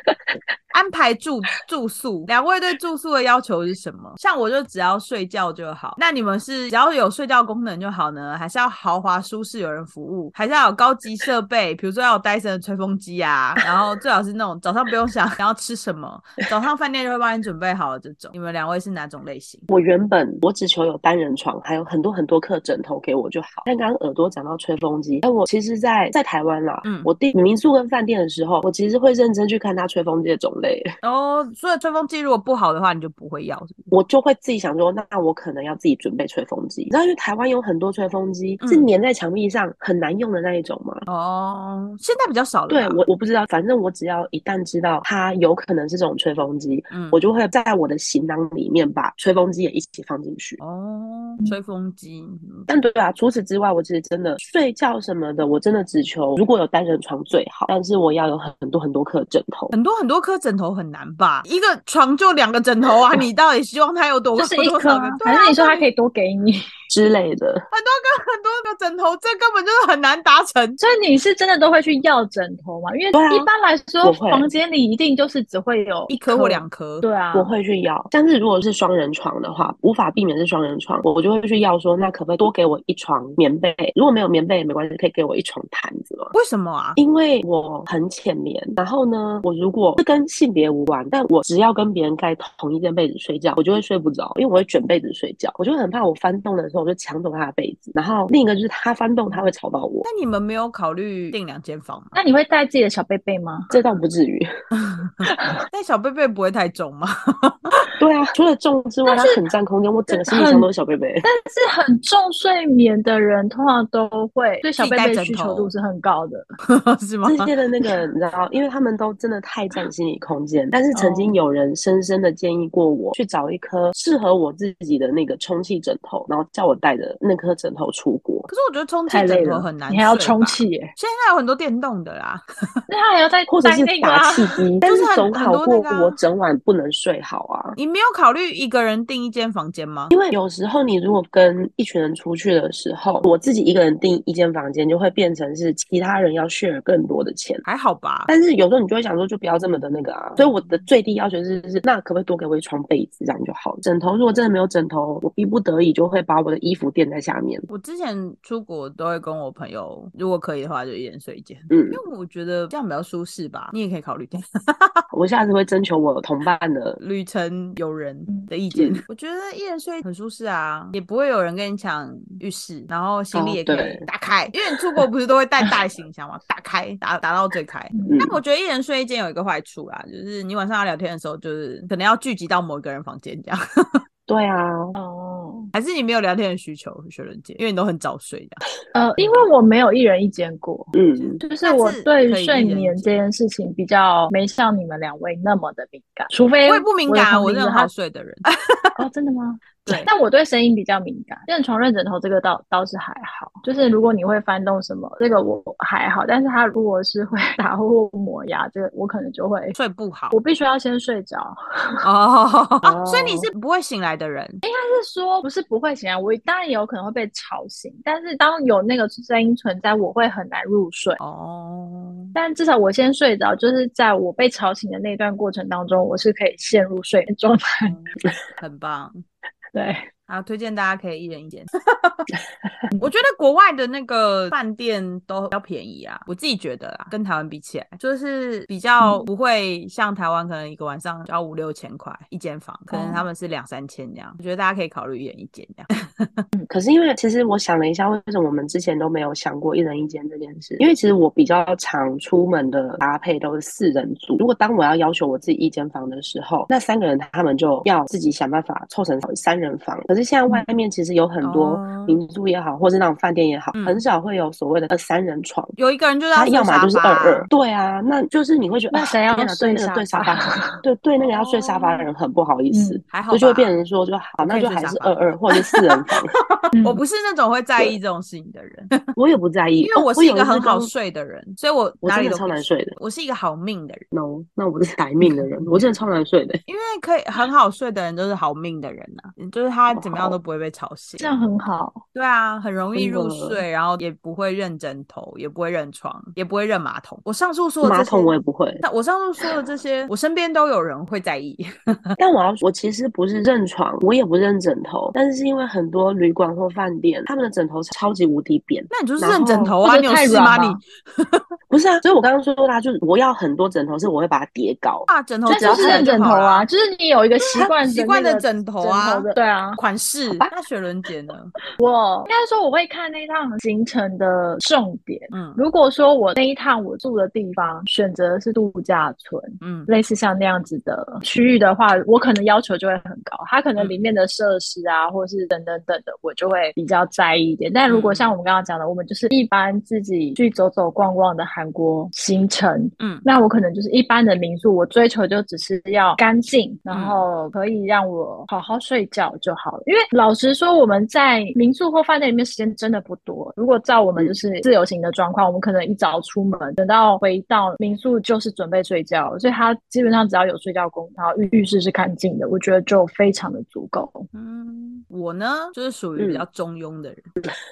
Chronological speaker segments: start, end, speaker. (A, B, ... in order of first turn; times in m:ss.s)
0:00.7-0:19.7 A
0:19.7-0:30.9 B
0:26.8-0:27.1 A
0:31.0-0:33.8 A
0:33.9-0:41.0 B
0:38.6-0:38.9 A
0:41.1-0:43.0 A
0:42.7-0:50.6 B
0:46.9-0:47.2 A
0:50.6-0:52.7 A
0:52.7-0:59.7 B
0:59.7-1:05.8 A
1:04.3-1:06.6 C
1:06.9-1:07.6 B
1:07.7-1:10.8 A
1:10.8-1:17.5 C
1:13.1-1:13.5 B
1:14.0-1:14.5 B
1:16.1-1:17.0 A
1:17.3-1:26.3 B
1:26.3-1:27.0 A
1:27.0-1:40.1 B
1:40.0-1:42.2 A
1:42.1-1:43.7 C
1:43.7-1:44.5 B
1:44.8-1:47.7 A
1:45.2-1:45.6 C
1:48.0-1:51.2 B
1:49.1-1:49.4 C
1:50.1-1:50.7 C
1:51.2-1:56.5 C
1:54.8-1:55.7 A
1:56.7-1:57.5 A
1:57.2-2:08.5 B
2:00.9-2:01.4 C
2:08.5-2:12.4 A
2:09.1-2:10.9 C
2:12.9-2:14.5 C
2:13.5-2:17.8 B
2:14.8-2:16.2 A
2:17.8-2:20.1 A
2:20.1-2:27.6 B
2:27.6-2:28.3 A
2:28.3-2:37.7 B
2:30.4-2:30.8 A
2:37.7-2:45.0 A
2:41.7-2:42.0 B
2:45.1-2:47.0 B
2:47.0-3:04.0 A
2:48.8-2:49.0 B
2:53.3-2:54.0 B
2:57.9-2:58.2 C
2:58.1-2:58.4 B
3:04.3-3:05.0 B
3:05.0-3:05.7 C
3:05.7-3:08.6 A
3:08.9-3:17.9 C
3:10.9-3:11.4 B
3:11.2-3:13.2 A
3:16.7-3:19.0 A
3:19.0-3:29.8 C
3:29.8-3:30.4 A
3:30.3-3:32.0 C
3:32.0-3:34.6 A
3:32.8-3:33.5 B
3:34.6-3:41.2 C
3:41.2-3:42.3 A
3:42.4-3:48.0 C
3:47.8-3:49.2 A
3:49.8-3:50.1 C
3:50.3-3:52.2 A
3:53.0-4:06.4 A
3:59.0-3:59.2 C
4:02.9-4:03.2 C
4:06.7-4:25.7 B
4:21.4-4:22.2 A
4:25.8-4:27.5 A
4:26.4-4:36.4 B
4:28.9-4:30.8 C
4:31.2-4:32.1 A
4:32.7-4:33.0 C
4:33.1-4:33.8 A
4:34.4-4:39.0 A
4:36.7-4:37.0 C
4:39.2-4:40.9 B
4:39.8-4:44.1 A
4:42.0-4:42.9 B
4:44.1-4:46.6 B
4:46.7-4:51.4 A
4:49.9-4:50.4 B
4:51.2-4:52.0 C
4:52.1-5:02.2 A
4:53.0-4:53.6 B
4:57.8-4:58.8 B
5:02.2-5:09.8 B
5:08.9-5:11.4 A
5:09.8-5:10.8 C
5:11.7-5:16.2 B
5:15.1-5:16.7 A
5:15.5-5:19.8 C
5:17.4-5:21.5 A
5:21.8-6:04.3 C
5:25.3-5:25.6 A
5:29.6-5:29.9 A
5:37.9-5:38.4 A
5:43.0-5:43.2 A
5:46.9-5:47.2 A
6:04.3-6:07.3 A
6:06.2-6:06.4 B